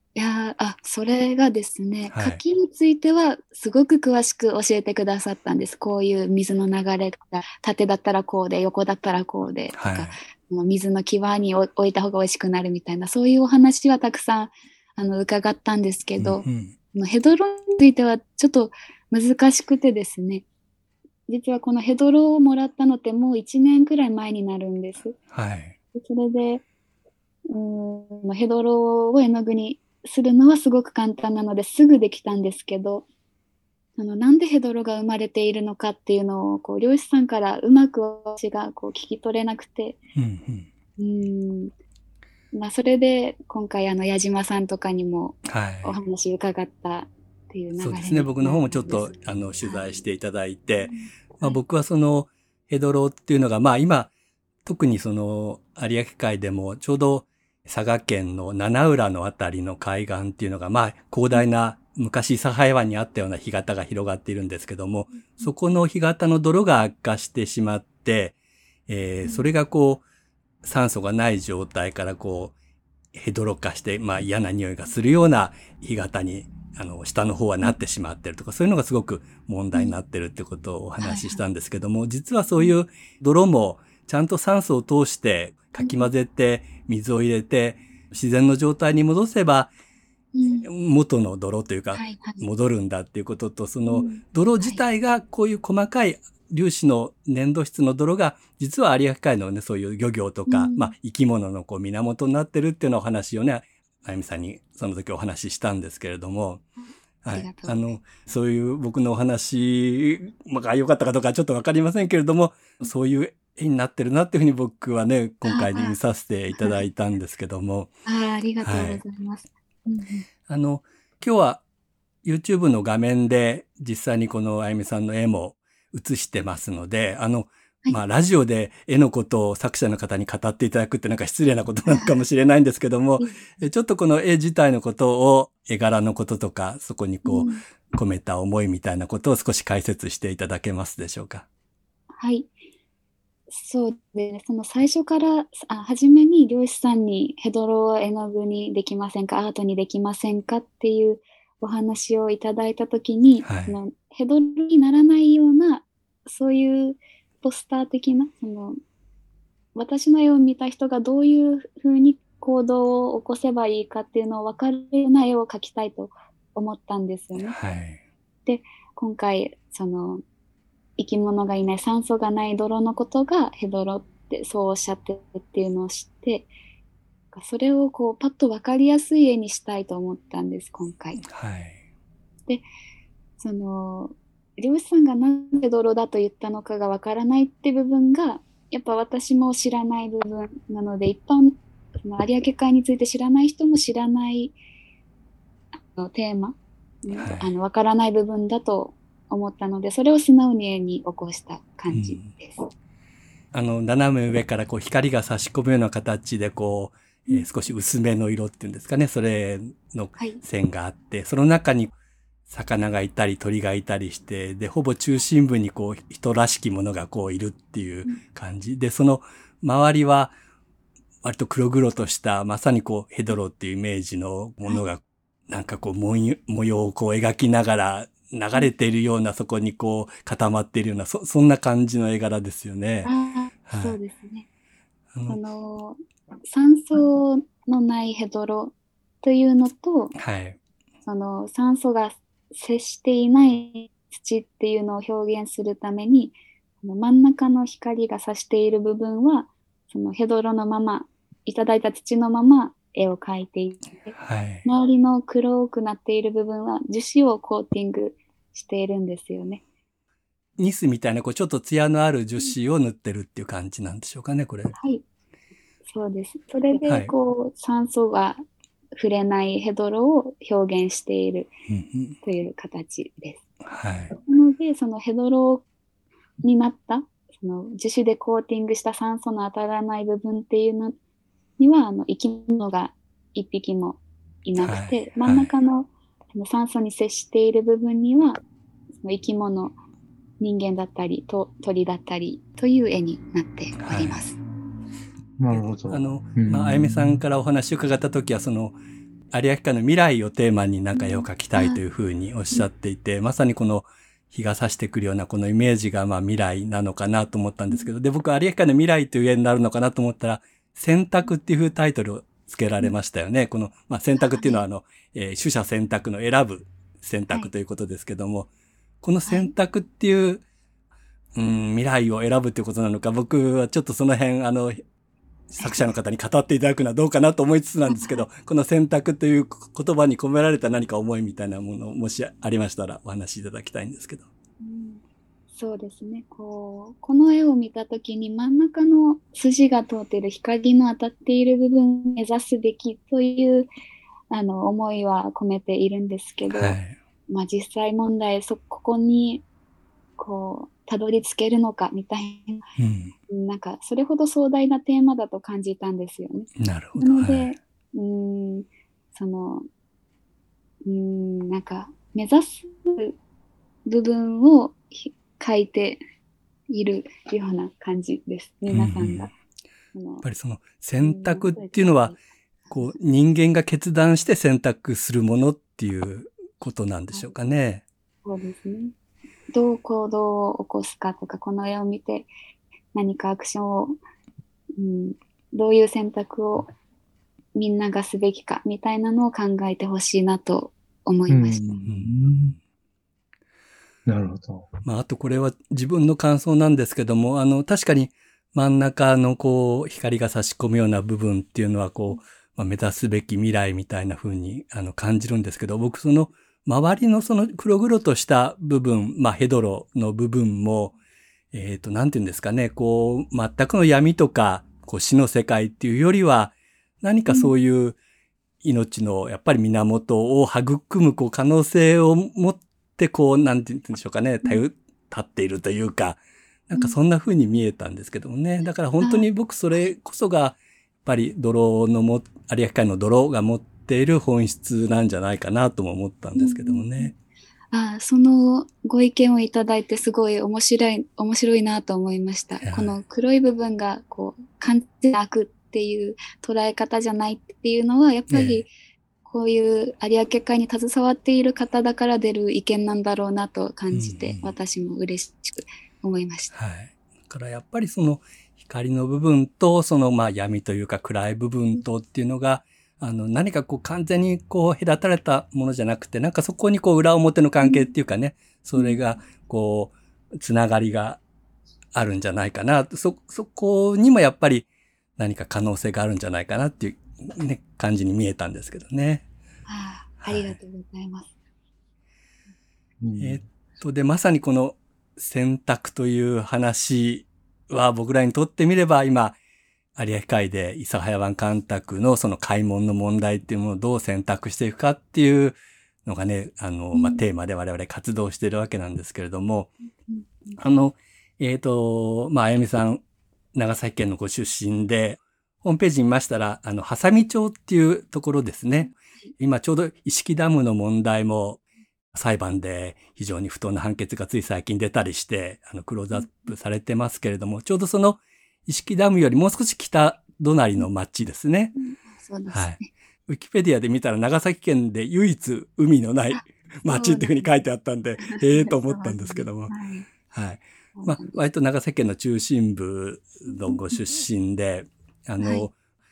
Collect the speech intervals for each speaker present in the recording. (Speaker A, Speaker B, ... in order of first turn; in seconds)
Speaker A: 0.1-20.4, 21.3-25.1, 25.9-26.6, 27.5-33.0, 34.0-40.0, 41.0-41.7, 42.5-50.0, 50.9-51.6, 65.2-65.5, 81.0-81.4, 85.8-86.1, 90.3-90.7, 91.9-92.4, 93.9-94.8, 100.5-100.9, 106.8-107.9, 115.5-116.0, 116.5-116.8, 118.0-120.2, 131.9-132.1, 133.2-133.5, 137.2-137.6, 142.2-142.5, 143.5-158.8, 159.7-167.6, 168.4-170.2, 171.0-176.5, 177.3-181.2, 183.4-194.5, 195.7-202.7, 233.0-234.5, 235.3-240.1, 241.1-259.6, 264.8-265.0, 265.9-268.4, 268.9-271.5, 272.2-273.4, 274.1-275.6, 276.4-280.9, 281.6-288.4, 289.0-289.8, 290.4-294.4, 300.9-301.8, 314.2-314.6, 319.3-319.5, 325.6-325.9, 327.9-328.3, 334.6-335.0, 335.5-343.7, 344.3-346.8, 347.3-349.4, 350.2-352.6, 353.3-359.6, 360.8-363.1, 363.9-366.0, 366.7-369.3, 369.9-370.2, 371.0-372.9, 378.2-378.9, 379.5-382.3, 382.9-384.0, 384.7-386.7, 387.5-391.8, 429.0-429.2, 436.4-437.1, 437.7-448.7, 449.2-456.5, 467.6-467.9, 479.7-481.3, 496.9-497.2, 500.1-500.6, 516.1-516.5, 521.8-522.9, 526.3-527.5, 528.2-530.1, 531.0-531.4, 535.4-535.7
Speaker B: 2.1-2.4, 9.7-10.1, 16.2-16.7, 25.3-25.8, 40.1-40.7, 45.4-45.9, 47.7-54.1, 54.6-68.3, 68.9-70.0, 70.6-72.5, 73.1-89.7, 90.6-106.6, 107.2-117.9, 118.6-119.0, 120.5-121.6, 122.2-141.4, 153.4-153.8, 167.3-168.0, 181.2-181.8, 197.2-197.5, 201.9-202.3, 203.5-211.9, 212.5-220.3, 221.2-233.1, 233.7-234.0, 235.1-235.4, 240.1-240.6, 254.2-254.6, 260.6-264.7, 266.9-267.1, 271.7-272.2, 273.6-274.1, 284.6-285.5, 293.8-294.3, 295.9-298.8, 299.3-318.5, 319.0-320.4, 321.3-324.8, 325.5-334.3, 346.5-347.0, 352.8-353.1, 356.6-357.5, 368.7-369.3, 370.2-372.1, 372.7-377.8, 391.8-392.2, 394.8-410.9, 411.5-418.0, 418.6-437.1, 442.6-443.0, 448.3-448.6, 453.9-454.5, 456.5-471.2, 471.9-479.2, 480.2-480.6, 483.2-489.4, 489.9-499.7, 500.6-503.0, 503.5-511.6, 512.1-521.7, 522.5-529.7, 530.3-535.7
Speaker C: 295.4-297.2, 391.3-392.5, 394.1-394.7, 483.0-483.4